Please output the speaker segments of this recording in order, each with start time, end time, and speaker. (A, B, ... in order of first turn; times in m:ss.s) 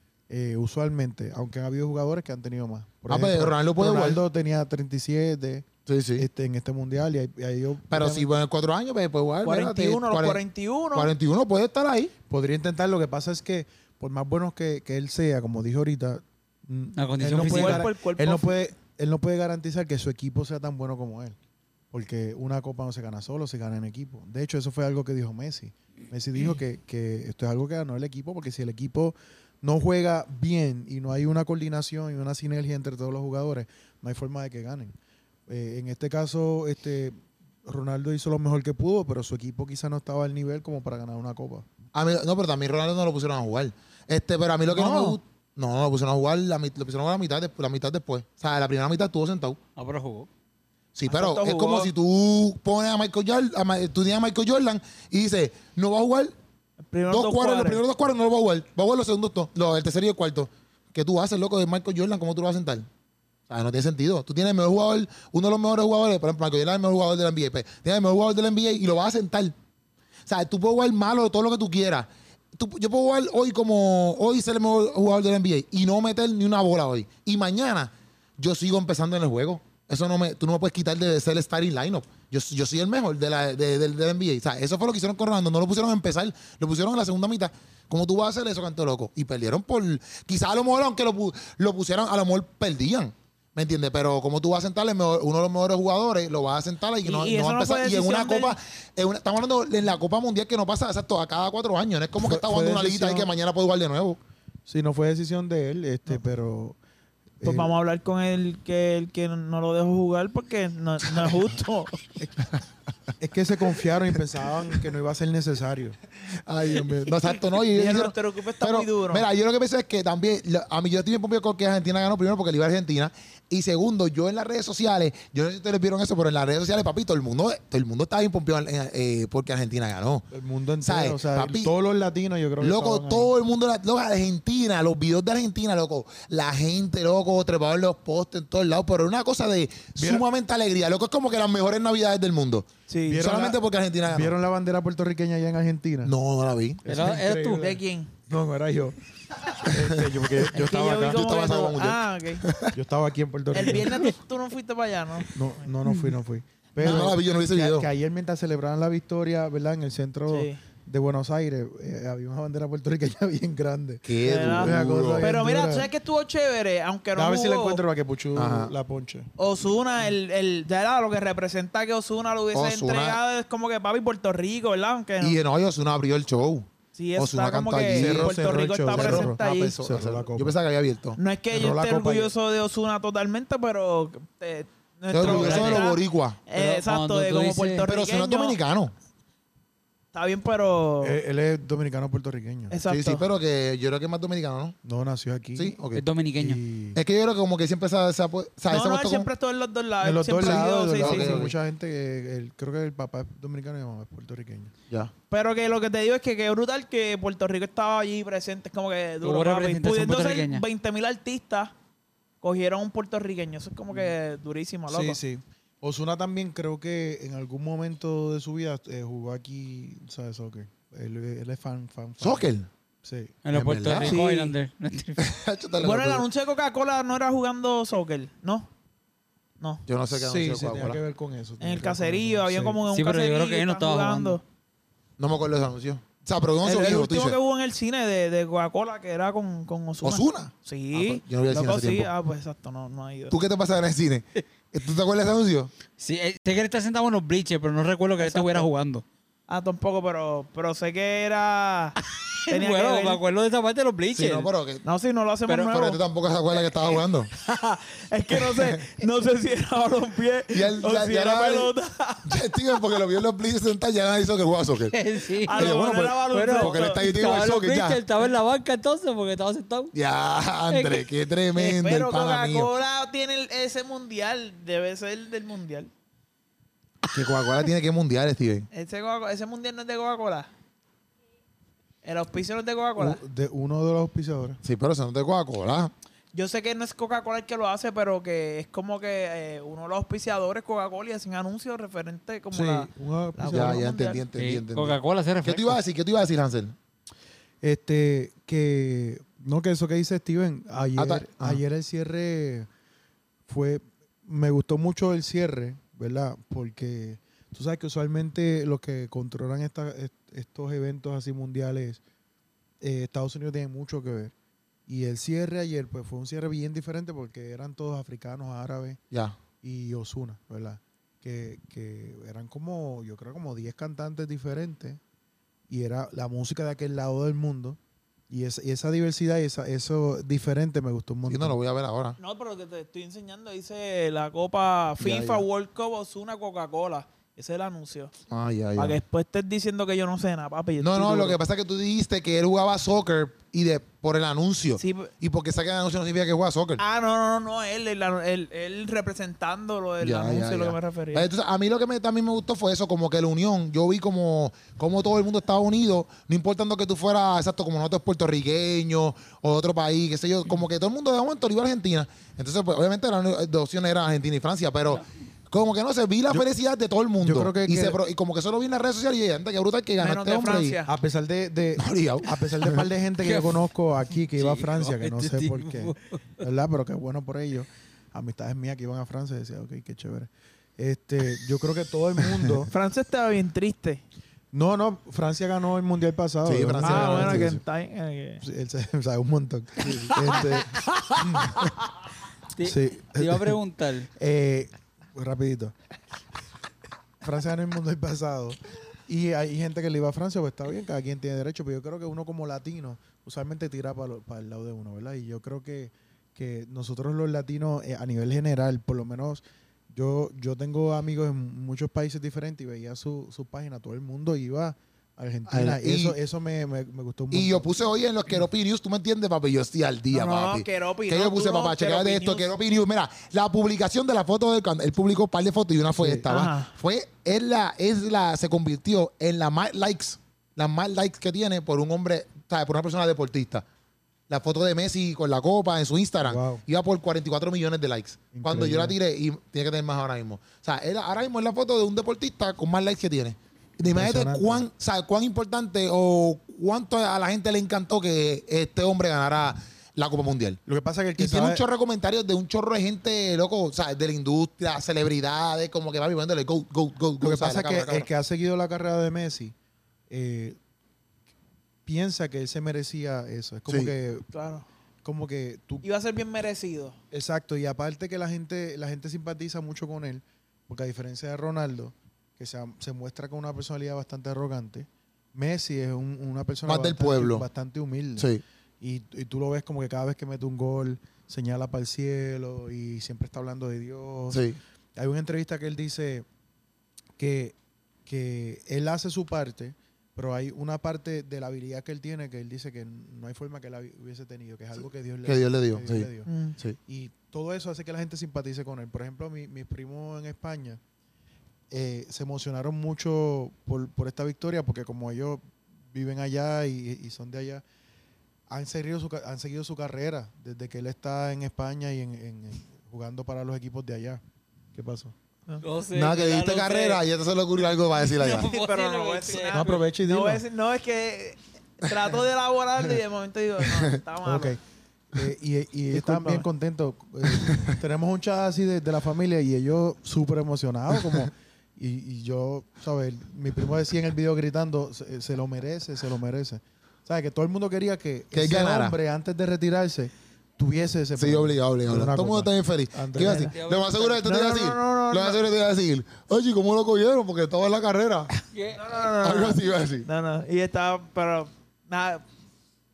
0:00.3-0:08.3 A
0:03.1-0:04.2 B
0:05.8-0:06.3 B
0:07.9-0:10.4 B
0:09.4-0:11.1 C
0:10.9-0:12.1 B
0:12.3-0:21.4 A
0:17.0-0:17.9 D
0:17.4-0:18.6 C
0:21.9-0:34.9 A
0:35.5-0:41.6 A
0:41.9-0:49.6 B
0:44.7-0:45.2 C
0:49.8-0:50.3 D
0:50.9-0:56.3 B
0:51.1-0:51.9 C
0:56.9-0:57.8 C
0:57.1-1:02.9 B
1:03.5-1:09.5 B
1:10.2-1:44.2 B
1:37.0-1:38.6 C
1:42.2-1:43.3 A
1:44.6-1:46.8 A
1:47.4-1:47.8 A
1:47.4-1:52.0 C
1:52.2-1:52.5 A
1:53.2-1:56.0 A
1:56.3-2:10.3 B
1:57.7-1:59.2 C
2:10.3-2:13.3 A
2:10.8-2:11.7 B
2:12.6-2:22.7 B
2:20.0-2:20.2 A
2:22.9-2:23.2 C
2:23.1-2:26.1 A
2:23.2-2:24.3 B
2:26.0-2:26.8 B
2:26.8-2:29.0 A
2:26.8-2:27.8 D
2:27.6-2:28.1 C
2:29.5-2:31.2 A
2:29.6-2:32.7 B
2:30.5-2:32.5 C
2:32.7-2:34.1 A
2:33.5-2:35.3 C
2:35.3-2:45.9 A
2:35.8-2:36.1 D
2:36.8-2:37.9 B
2:40.3-2:40.6 C
2:44.0-2:45.4 B
2:44.2-2:47.8 C
2:47.1-2:49.3 A
2:48.3-2:48.7 B
2:49.4-2:55.4 C
2:52.5-2:53.2 B
2:55.2-2:58.4 B
2:56.9-2:59.8 C
2:57.9-3:00.5 A
2:58.9-3:01.2 B
3:01.2-3:08.6 C
3:01.5-3:02.3 A
3:05.1-3:06.4 B
3:05.2-3:05.9 D
3:06.5-3:07.8 D
3:07.8-3:08.9 B
3:10.1-3:11.2 C
3:11.0-3:12.8 A
3:12.7-3:13.2 C
3:12.9-3:14.8 B
3:14.8-3:15.8 A
3:15.5-3:16.0 B
3:15.9-3:16.6 D
3:16.4-3:17.0 A
3:16.9-3:19.3 B
3:18.7-3:21.4 C
3:20.0-3:24.7 A
3:20.4-3:21.6 B
3:25.3-3:31.7 C
3:29.2-3:30.6 D
3:32.4-3:35.2 C
3:34.9-3:42.5 A
3:42.2-3:42.7 B
3:43.0-3:43.4 A
3:43.4-3:45.3 D
3:43.5-3:44.2 B
3:44.0-3:44.5 C
3:45.2-3:46.2 B
3:45.8-3:48.7 C
3:49.6-3:49.8 C
3:49.8-3:51.0 B
3:50.1-3:52.8 A
3:51.6-3:54.4 C
3:52.9-3:54.4 D
3:55.2-3:57.4 B
3:56.6-4:03.4 C
4:00.0-4:02.1 B
4:03.3-4:05.7 B
4:06.0-4:09.0 D
4:08.2-4:08.7 C
4:09.5-4:12.0 C
4:12.5-4:14.5 D
4:12.5-4:13.2 C
4:14.1-4:14.8 B
4:14.8-4:16.0 C
4:15.6-4:17.3 B
4:17.3-4:22.3 C
4:18.5-4:18.8 B
4:20.5-4:21.7 B
4:22.2-4:25.0 B
4:24.9-4:25.8 D
4:25.4-4:27.0 C
4:25.5-4:28.0 B
4:26.3-4:29.9 D
4:29.9-4:32.7 B
4:30.7-4:31.1 D
4:31.5-4:35.9 C
4:37.0-4:38.7 B
4:38.7-4:40.5 C
4:42.0-4:43.2 C
4:43.0-4:44.6 A
4:44.6-4:45.9 B
4:46.3-4:54.2 C
4:52.5-4:53.9 A
4:53.5-4:56.7 B
4:54.4-4:55.8 D
4:57.6-5:02.7 A
5:00.9-5:01.6 B
5:03.5-5:12.0 A
5:12.8-5:14.3 A
5:14.9-5:19.0 A
5:19.1-5:19.4 B
5:19.6-5:25.0 A
5:25.7-5:27.8 A
5:28.3-5:31.6 A
5:31.3-5:32.2 B
5:32.2-5:38.1 C
5:35.0-5:35.4 B
5:38.3-5:39.0 B
5:38.8-5:41.4 C
5:40.8-5:46.8 B
5:44.8-5:45.1 C
5:46.8-5:51.3 C
5:50.0-6:10.8 B
6:07.2-6:08.0 A
6:10.0-6:10.9 C
6:10.8-6:22.7 A
6:11.8-6:12.8 B
6:13.2-6:13.6 D
6:14.3-6:16.4 D
6:22.7-6:24.0 C
6:24.5-6:27.6 A
6:26.4-6:27.6 B
6:26.8-6:28.4 C
6:28.4-6:31.7 A
6:29.8-6:30.2 B
6:32.6-6:34.1 D
6:32.6-6:33.6 A
6:34.2-6:35.7 A
6:37.2-6:57.7 A
6:55.4-6:56.2 B
6:57.3-7:13.6 B
7:00.1-7:02.5 C
7:06.0-7:06.3 A
7:06.3-7:06.7 C
7:14.3-7:30.6 B
7:16.2-7:16.6 A
7:18.3-7:19.0 A
7:23.9-7:24.6 A
7:30.6-7:31.6 A
7:31.2-7:38.1 B
7:37.2-7:39.5 A
7:40.1-7:40.6 A
7:41.8-7:44.2 A
7:43.7-7:43.9 B
7:44.3-7:44.6 C
7:45.0-7:45.8 A
7:45.8-7:47.0 C
7:47.1-8:04.4 A
7:56.6-7:57.5 B
7:58.2-7:58.4 B
8:04.3-8:04.6 B
8:05.0-8:06.2 A
8:07.2-8:07.5 A
8:08.0-8:16.3 A
8:15.2-8:16.8 B
8:16.2-8:16.6 C
8:16.8-8:20.8 A
8:21.7-8:27.6 A
8:28.5-8:34.2 A
8:34.7-8:35.2 A
8:35.6-8:37.0 D
8:35.9-8:38.5 B
8:38.1-8:39.8 D
8:38.2-8:44.6 C
8:39.5-8:40.4 A
8:43.6-8:44.0 B
8:44.2-8:44.6 A
8:45.1-9:03.5 A
8:45.9-8:46.4 C
8:47.2-8:47.7 B
8:58.3-8:59.0 B
9:01.1-9:08.3 B
9:03.2-9:03.5 C
9:03.3-9:04.2 D
9:04.2-9:05.4 C
9:08.5-9:08.8 D
9:08.7-9:12.2 C
9:09.0-9:10.1 B